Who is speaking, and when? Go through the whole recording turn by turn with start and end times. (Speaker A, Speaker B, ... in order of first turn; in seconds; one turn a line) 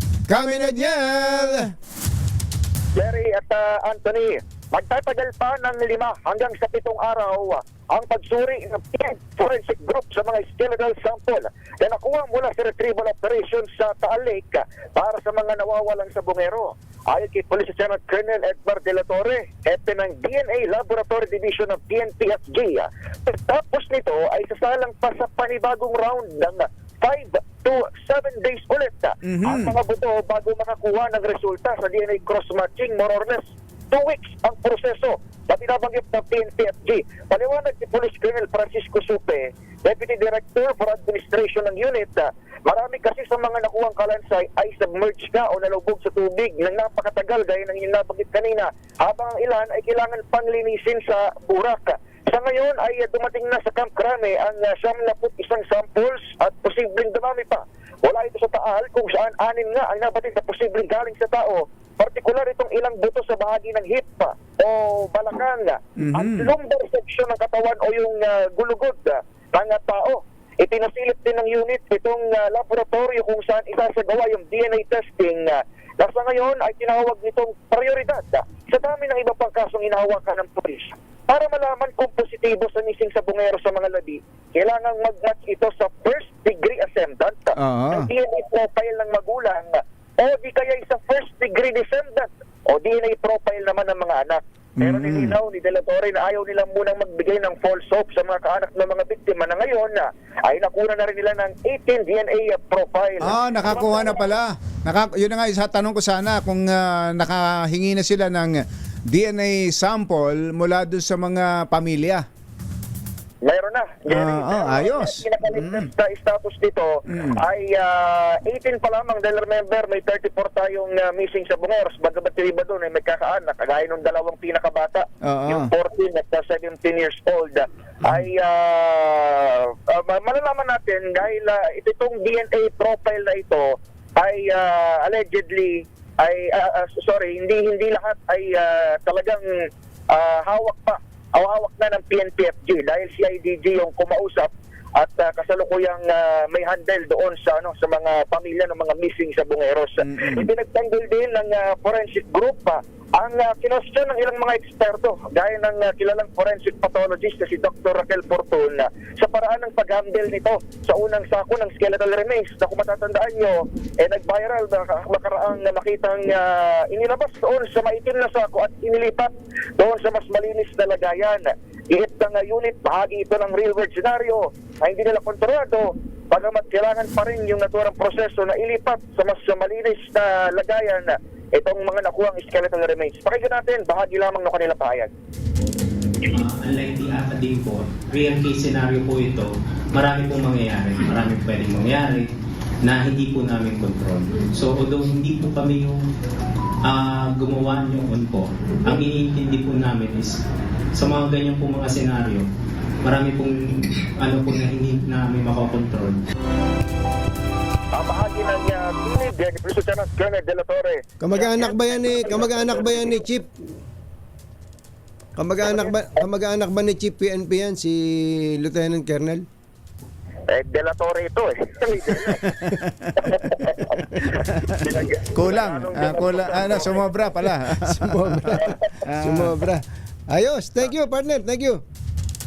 Speaker A: 0.3-1.7
Speaker B: 0.3-1.7
Speaker C: 3.0-104.3
Speaker A: 29.2-29.7
Speaker A: 66.0-66.5
Speaker A: 87.6-88.1
Speaker A: 94.8-95.3
Speaker A: 103.2-112.2
Speaker C: 113.4-133.7
Speaker A: 114.1-115.9
Speaker A: 117.1-117.4
Speaker A: 125.2-125.7
Speaker C: 134.2-139.4
Speaker C: 140.1-185.1
Speaker A: 150.0-150.5
Speaker D: 186.3-192.3
Speaker D: 192.8-196.0
Speaker D: 196.8-200.4
Speaker D: 200.9-202.5
Speaker D: 203.0-206.2
Speaker C: 207.9-213.2
Speaker B: 211.2-213.5
Speaker B: 215.4-219.5
Speaker C: 220.5-222.5
Speaker A: 222.2-229.5
Speaker C: 223.2-227.1
Speaker B: 227.7-231.8